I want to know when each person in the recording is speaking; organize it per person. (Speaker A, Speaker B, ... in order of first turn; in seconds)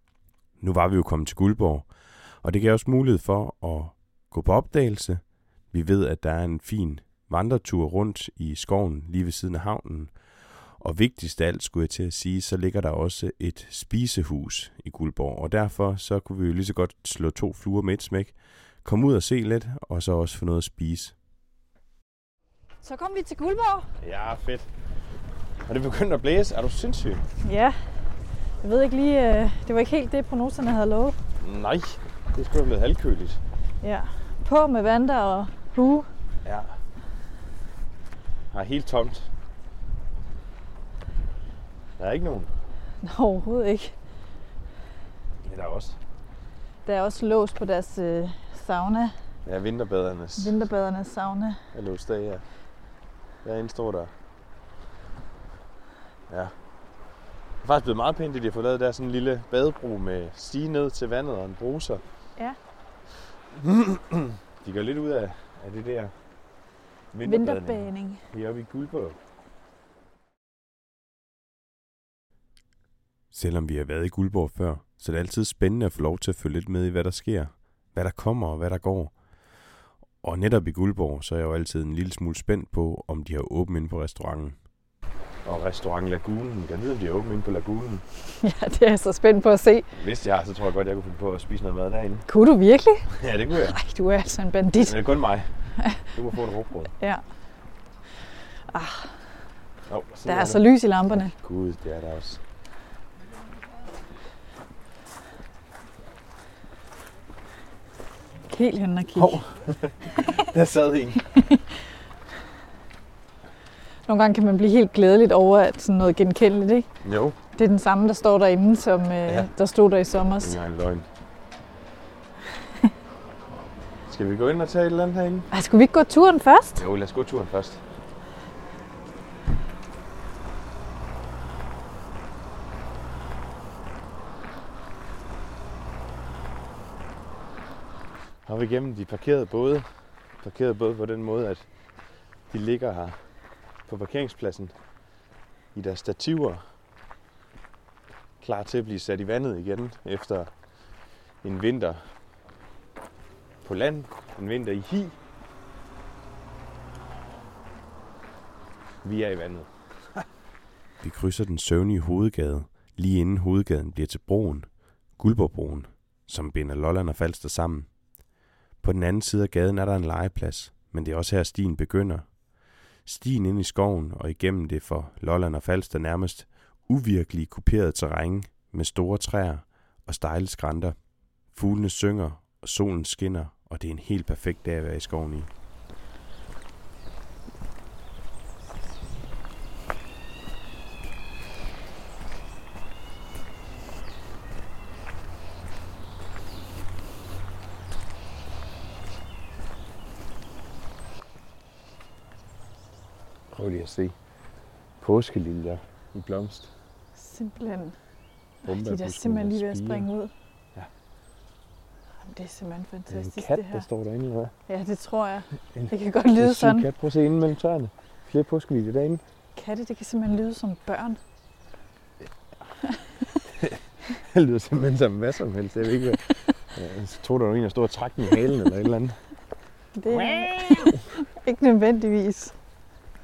Speaker A: 0.6-21.1, 24.0-24.7, 25.7-27.2, 31.4-33.4, 36.4-36.8, 38.5-39.3, 42.0-42.5, 45.4-46.0, 49.5-50.5, 51.7-52.4, 53.4-54.1, 56.3-56.5, 57.6-62.0, 63.5-66.1, 67.1-69.2, 73.3-79.1, 80.2-84.5, 85.4-88.0, 90.0-92.3, 93.1-93.8, 94.8-96.9, 99.9-102.4, 109.1-111.2, 117.0-117.3, 120.4-121.0, 124.1-125.5, 126.8-127.8, 138.4-139.9, 140.4-141.7, 142.5-143.2, 143.9-144.7, 145.7-146.6, 148.4-150.5, 151.4-152.1, 153.6-155.1, 159.0-160.2, 161.0-167.9, 168.8-172.3, 173.0-181.0, 181.5-185.5, 203.5-204.1, 205.0-206.7, 208.6-210.1, 213.1-214.5, 215.7-219.2, 223.6-229.2, 230.1-231.0
Speaker B: 22.8-23.9, 27.4-28.0, 28.6-31.1, 33.8-36.1, 43.0-43.9, 46.8-49.1, 50.4-51.6, 67.2-68.2, 88.4-89.9, 92.3-93.1, 93.7-95.0, 98.7-99.2, 100.2-101.3, 108.5-109.4, 111.3-111.6, 114.1-116.9, 117.5-120.5, 125.5-126.8, 207.2-207.9, 208.6-210.3, 212.2-213.8, 214.7-216.8, 219.5-221.2, 229.9-232.5